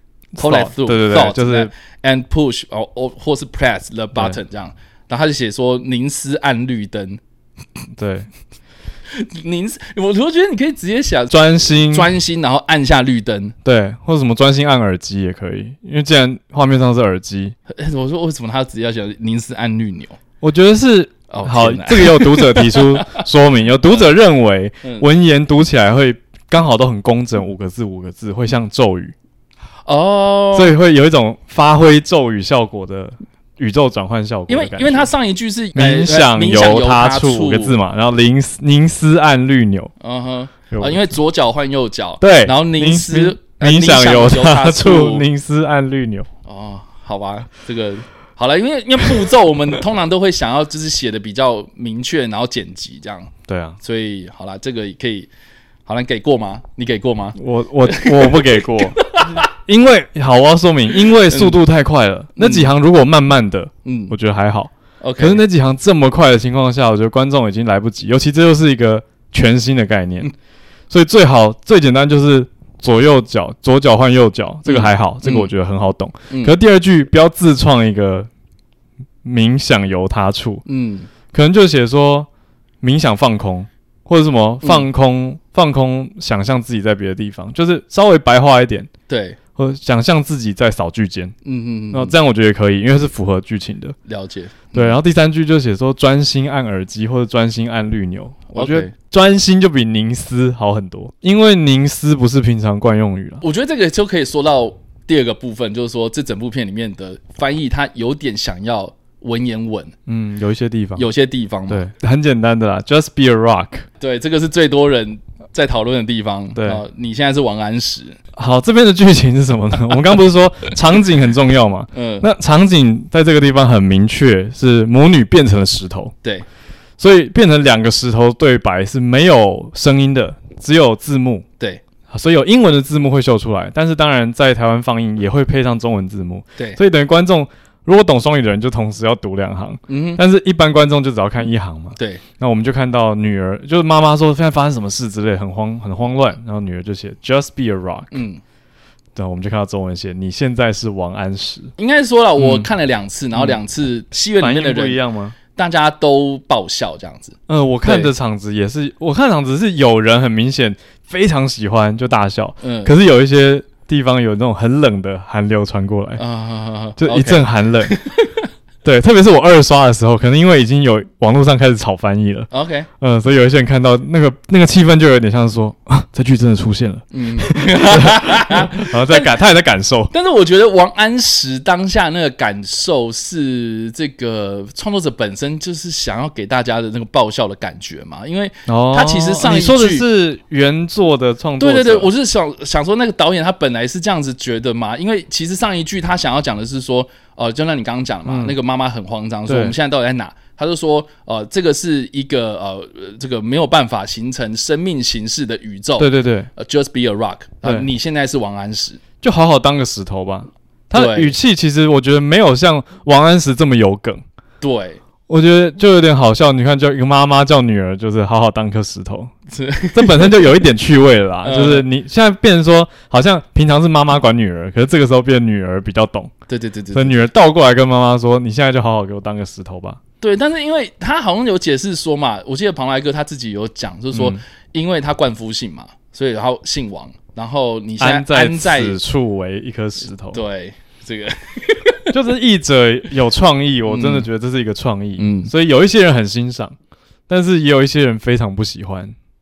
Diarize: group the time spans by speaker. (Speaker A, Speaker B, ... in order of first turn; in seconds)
Speaker A: 0.3-1.7, 8.0-8.3, 11.3-12.1, 13.6-17.6, 20.4-29.1, 30.6-35.1, 35.8-39.9, 40.7-41.0, 42.2-46.3, 53.5-53.8, 57.4-70.3, 70.9-78.3, 79.2-80.6, 81.3-82.3, 82.8-88.9, 89.6-91.3, 91.9-94.0, 94.7-103.4, 110.1-111.1, 111.7-113.9, 116.6-116.8, 118.3-126.1, 127.0-131.4, 132.1-148.1, 149.1-151.7, 152.4-152.7, 154.4-155.4, 157.5-166.2, 167.0-168.0, 168.8-180.1, 188.7-192.1, 198.3-198.6, 199.5-199.8, 206.0-206.5, 209.2-214.2, 215.3-219.3, 219.9-226.3, 226.9-230.0, 234.1-234.4, 238.0-240.4, 242.1-246.8, 247.3-249.1
Speaker B: 0.4-7.2, 9.1-13.6, 17.7-20.2, 21.3-23.2, 29.9-30.8, 34.5-37.8, 40.0-45.3, 46.5-55.3, 55.9-59.4, 61.3-61.6, 62.4-62.7, 63.9-64.1, 65.0-65.4, 74.7-75.5, 76.3-76.5, 80.7-81.1, 89.1-89.4, 91.5-92.1, 94.1-95.0, 98.5-98.9, 103.4-109.9, 111.0-111.9, 114.0-118.2, 121.9-122.3, 139.9-140.2, 142.0-142.2, 148.1-148.4, 151.8-155.0, 155.6-158.1, 162.6-162.9, 166.2-168.4, 172.5-172.9, 177.1-179.3, 180.1-190.1, 191.6-209.0, 210.9-211.3, 214.6-215.0, 219.5-220.6, 221.4-221.9, 226.5-227.2, 230.2-239.0, 240.3-242.1, 243.9-244.3, 245.2-245.5